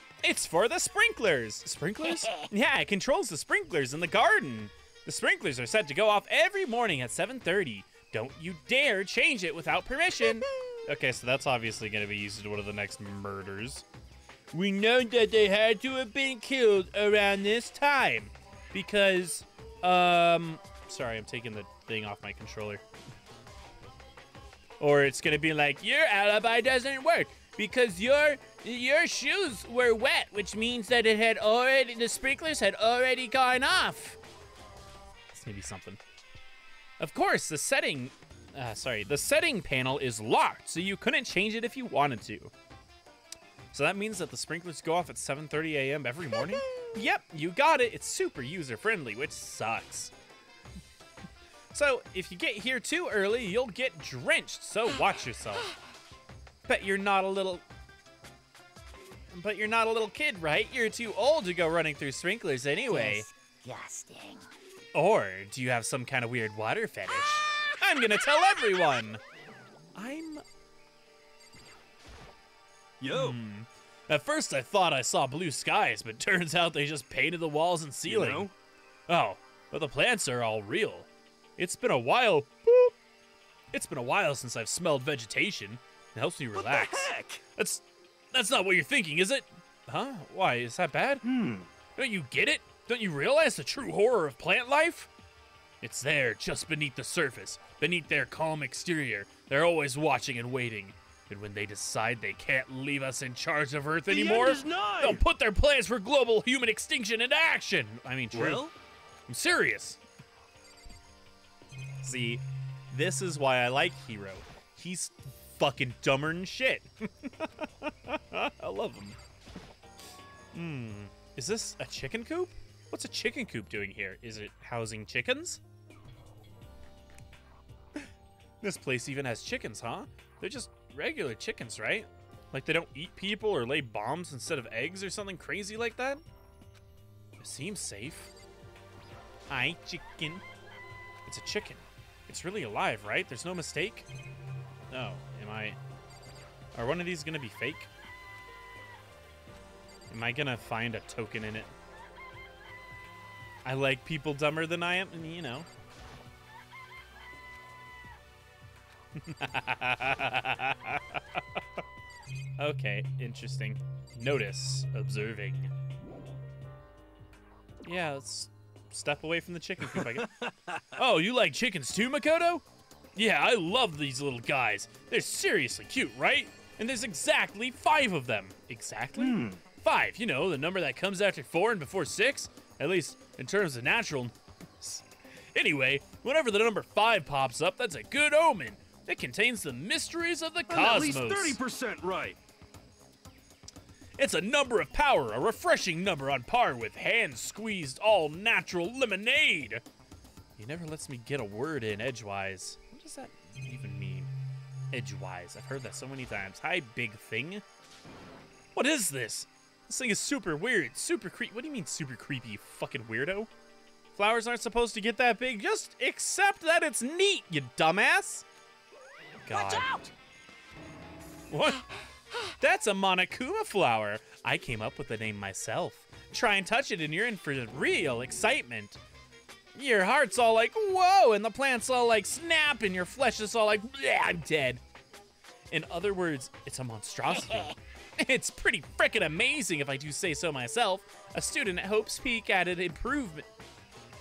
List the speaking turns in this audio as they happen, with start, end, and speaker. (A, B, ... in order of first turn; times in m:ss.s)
0:00.2-0:13.8 A
0:02.1-0:02.5 B
0:14.5-0:22.8 A
0:24.8-0:34.2 A
0:35.3-0:36.0 A
0:37.0-0:42.5 A
0:43.7-0:50.1 A
0:51.7-0:55.7 A
0:56.6-0:57.6 A
0:59.3-1:03.2 A
1:02.9-1:04.5 B
1:04.9-1:09.2 A
1:07.3-1:08.4 B
1:09.9-1:10.4 A
1:13.0-1:13.4 C
1:13.1-1:18.5 A
1:18.0-1:18.5 C
1:19.1-1:22.9 A
1:23.7-1:31.2 A
1:26.5-1:27.4 C
1:31.2-1:31.7 C
1:32.0-1:35.1 A
1:35.8-1:48.6 A
1:44.1-1:45.2 C
1:48.3-1:48.7 C
1:49.3-1:50.0 A
1:52.0-1:59.2 A
2:00.5-2:05.6 A
2:08.6-2:16.2 A
2:17.4-2:18.3 A
2:19.5-2:20.4 A
2:21.2-2:24.1 A
2:24.9-2:25.8 A
2:26.7-2:27.9 A
2:30.1-2:31.7 A
2:33.6-2:35.7 A
2:39.2-2:41.6 A
2:42.6-2:45.7 A
2:47.8-2:50.3 A
2:49.9-2:50.8 C
2:50.9-2:52.6 A
2:53.2-3:11.6 A
2:59.2-2:59.6 C
3:10.7-3:12.4 C
3:14.2-3:19.8 A
3:20.6-3:24.3 A
3:24.9-3:27.6 A
3:28.7-3:33.5 A
3:34.2-3:38.4 A
3:39.4-3:39.9 A
3:39.5-3:40.1 B
3:41.5-3:41.9 A
3:42.6-3:49.0 A
3:49.7-3:54.8 A
3:55.7-4:03.5 A
3:57.4-3:57.7 B